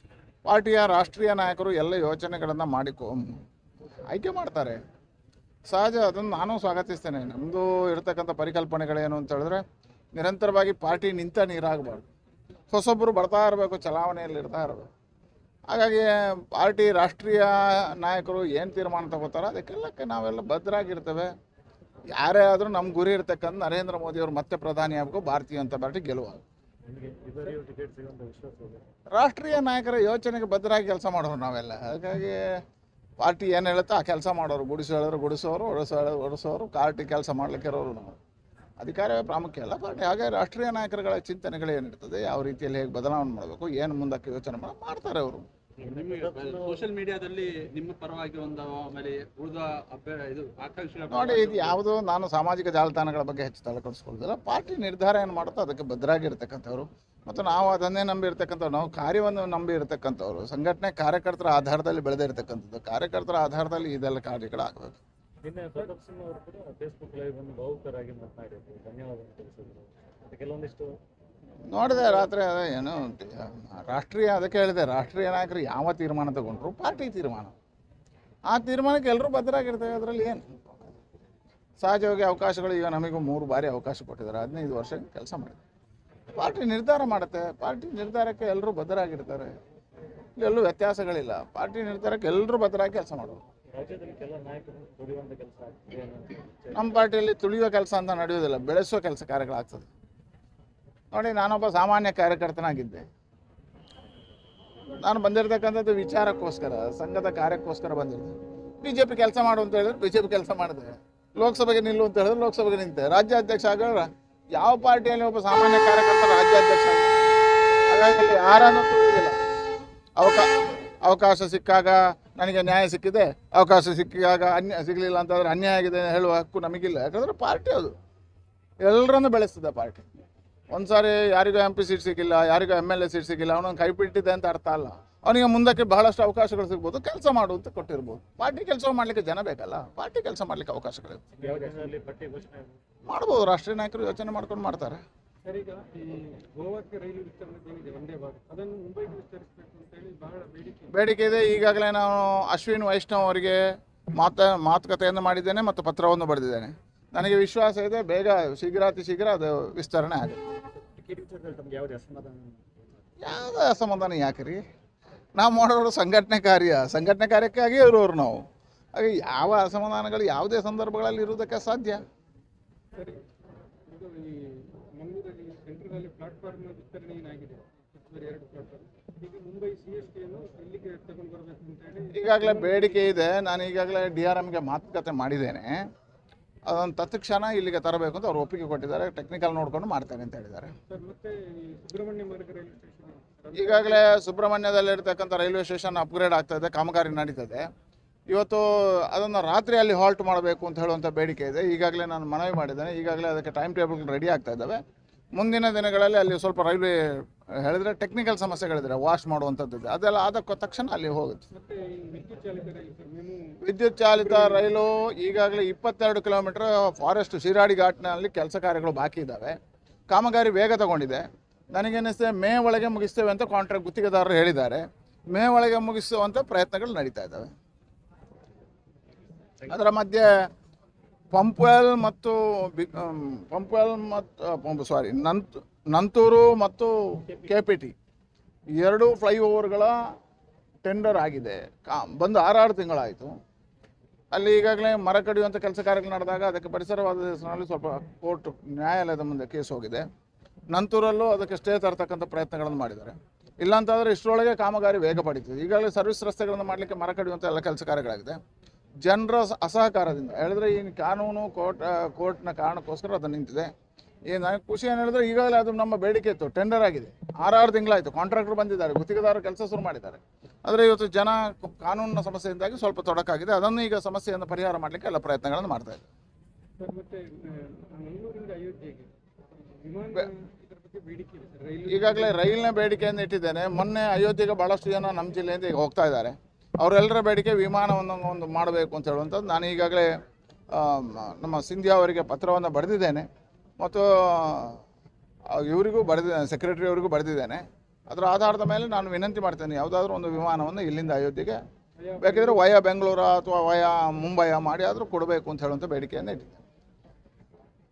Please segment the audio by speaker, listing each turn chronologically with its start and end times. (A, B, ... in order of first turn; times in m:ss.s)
0:00.4-0:03.4 A
0:04.1-0:04.8 A
0:05.7-0:09.6 A
0:10.1-0:12.1 A
0:12.7-0:14.9 A
0:15.7-0:21.3 A
0:22.1-0:26.4 A
0:26.9-0:28.8 B
0:29.1-0:32.5 A
0:33.2-0:38.2 A
0:38.8-0:45.4 A
0:45.8-0:46.9 B
0:45.8-0:51.8 C
0:51.1-1:05.0 A
1:05.4-1:11.0 B
1:11.7-1:17.5 A
1:18.5-1:20.8 A
1:21.8-1:25.6 A
1:26.3-1:29.5 A
1:30.4-1:33.4 A
1:33.7-1:37.0 B
1:36.7-1:39.8 A
1:41.1-1:43.0 A
1:45.0-1:57.3 A
1:57.9-1:59.4 A
2:00.2-2:00.5 A
2:01.0-2:07.9 A
2:08.8-2:10.0 A
2:10.7-2:21.2 A
2:21.4-2:22.8 B
2:23.1-2:25.0 A
2:25.4-2:30.9 D
2:30.9-2:33.6 A
2:34.2-2:40.4 A
2:40.9-2:42.6 B
2:43.2-2:44.6 A
2:45.4-2:52.0 A
2:52.9-2:53.2 D
2:53.9-3:03.2 D
3:02.1-3:05.8 A
3:06.7-3:10.7 A
3:10.9-3:14.0 D
3:13.5-3:17.6 A
3:18.3-3:24.8 A
3:25.3-3:31.4 A
3:31.5-3:33.6 D
3:33.6-3:39.6 A
3:34.1-3:34.7 D
3:40.1-3:47.5 A
3:49.7-3:50.5 A
3:51.3-3:57.9 A
3:58.8-3:59.9 A
4:00.8-4:03.3 A
4:04.3-4:10.0 A
4:10.7-4:18.4 A
4:19.0-4:23.7 A
4:24.3-4:36.0 A
4:36.8-4:39.1 D
4:39.8-4:42.7 D
4:41.9-4:50.1 A
4:50.7-4:53.3 A
4:53.8-4:54.8 A
4:55.5-5:01.6 A
5:02.0-5:02.6 D
5:02.2-5:06.6 A